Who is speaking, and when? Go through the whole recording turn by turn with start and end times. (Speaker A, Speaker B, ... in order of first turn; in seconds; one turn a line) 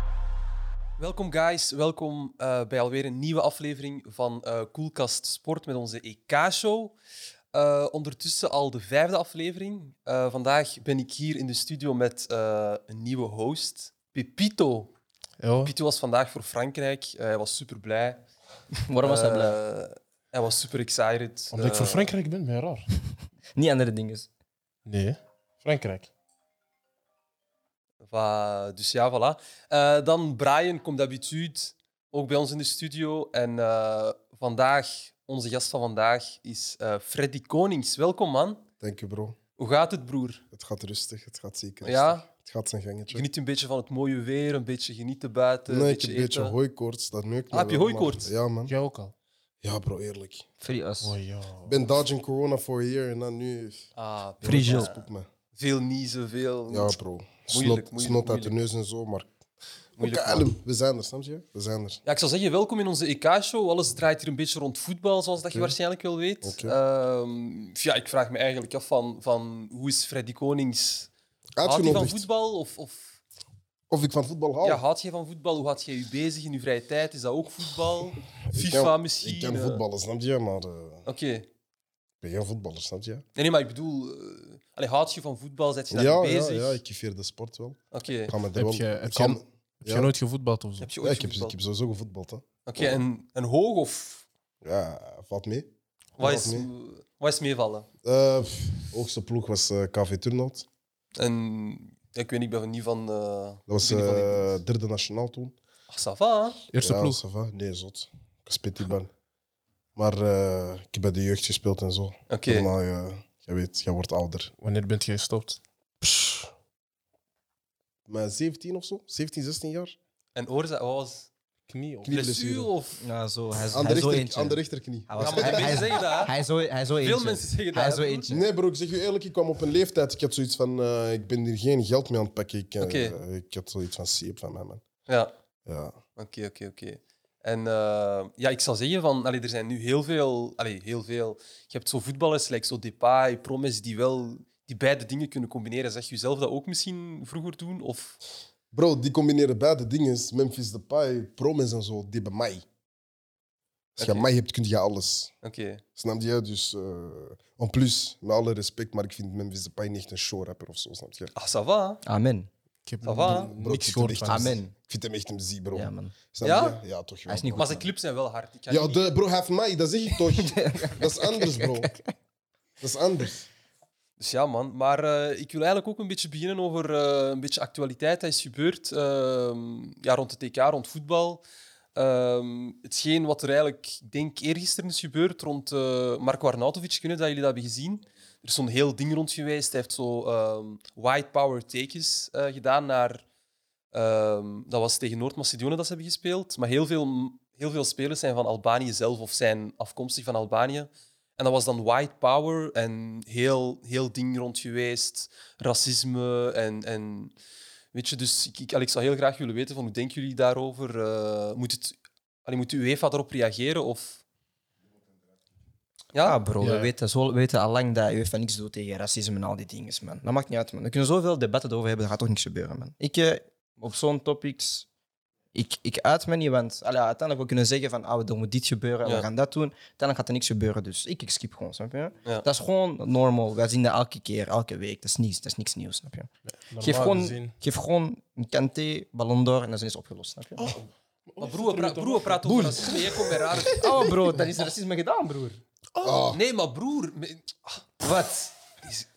Speaker A: 1.0-6.9
Speaker A: 7.5-14.9
Speaker B: 15.4-15.7
Speaker A: 15.6-18.2
Speaker C: 18.9-19.6
Speaker A: 19.0-22.1
Speaker B: 21.5-22.9
Speaker C: 23.6-24.3
Speaker B: 24.9-26.1
Speaker A: 28.1-38.6
Speaker D: 38.8-39.4
Speaker A: 39.6-40.4
Speaker D: 40.5-43.2
Speaker A: 41.8-42.3
Speaker A: 43.1-46.6
Speaker D: 45.7-48.7
Speaker A: 47.5-48.3
Speaker B: 48.7-49.1
Speaker D: 49.6-50.5
Speaker C: 50.6-51.1
Speaker B: 51.0-51.8
Speaker D: 51.7-53.9
Speaker A: 54.0-54.9
Speaker C: 54.4-54.9
Speaker D: 54.5-55.3
Speaker A: 55.5-57.0
Speaker D: 56.7-59.3
Speaker A: 57.5-58.6
Speaker D: 60.0-62.0
Speaker A: 60.0-60.5
Speaker A: 62.0-71.1
Speaker D: 65.5-65.7
Speaker D: 66.4-66.8
Speaker D: 71.6-72.2
Speaker A: 71.6-73.2
Speaker D: 73.9-74.8
Speaker A: 74.6-79.8
Speaker D: 78.4-81.0
Speaker A: 81.1-81.5
Speaker D: 82.2-83.2
Speaker A: 83.4-86.8
Speaker D: 85.9-90.1
Speaker A: 87.9-88.3
Speaker B: 88.5-90.9
Speaker A: 90.8-91.5
Speaker D: 91.0-92.9
Speaker A: 92.7-94.3
Speaker D: 94.6-95.7
Speaker A: 96.2-97.9
Speaker D: 96.2-96.7
Speaker D: 98.0-100.7
Speaker A: 101.2-104.6
Speaker D: 103.7-105.5
Speaker A: 105.9-106.6
Speaker B: 106.7-107.2
Speaker D: 106.8-109.1
Speaker D: 110.0-114.5
Speaker A: 112.3-112.7
Speaker B: 114.6-115.6
Speaker D: 116.0-116.5
Speaker D: 118.1-120.0
Speaker A: 120.3-121.3
Speaker B: 121.7-122.2
Speaker D: 122.0-122.7
Speaker A: 122.1-123.0
Speaker C: 123.0-128.5
Speaker D: 123.7-125.9
Speaker A: 125.2-126.3
Speaker A: 127.0-128.3
Speaker D: 128.3-134.8
Speaker A: 132.8-133.2
Speaker A: 135.1-135.3
Speaker D: 135.7-136.0
Speaker A: 136.2-148.2
Speaker D: 148.7-152.7
Speaker A: 154.0-154.3
Speaker D: 154.0-155.3
Speaker A: 155.4-155.8
Speaker D: 156.0-161.3
Speaker A: 161.3-162.0
Speaker C: 162.1-162.5
Speaker B: 162.9-164.6
Speaker A: 163.0-163.5
Speaker D: 163.2-167.8
Speaker C: 164.2-164.7
Speaker C: 165.7-166.1
Speaker A: 166.4-166.8
Speaker C: 167.3-167.9
Speaker A: 167.6-169.1
Speaker D: 168.7-171.9
Speaker C: 170.3-172.1
Speaker D: 172.8-173.5
Speaker A: 174.2-181.4
Speaker A: 181.9-193.2
Speaker A: 193.9-207.3
Speaker A: 207.9-214.2
Speaker A: 216.1-216.4
Speaker C: 216.2-224.9
Speaker B: 216.6-216.9
Speaker C: 225.5-236.3
Speaker B: 236.5-237.5
Speaker C: 236.8-240.8
Speaker B: 241.3-242.7
Speaker A: 241.4-243.9
Speaker D: 242.4-243.7
Speaker C: 243.7-245.6
Speaker D: 246.0-246.4
Speaker A: 246.3-248.0
Speaker C: 248.0-248.5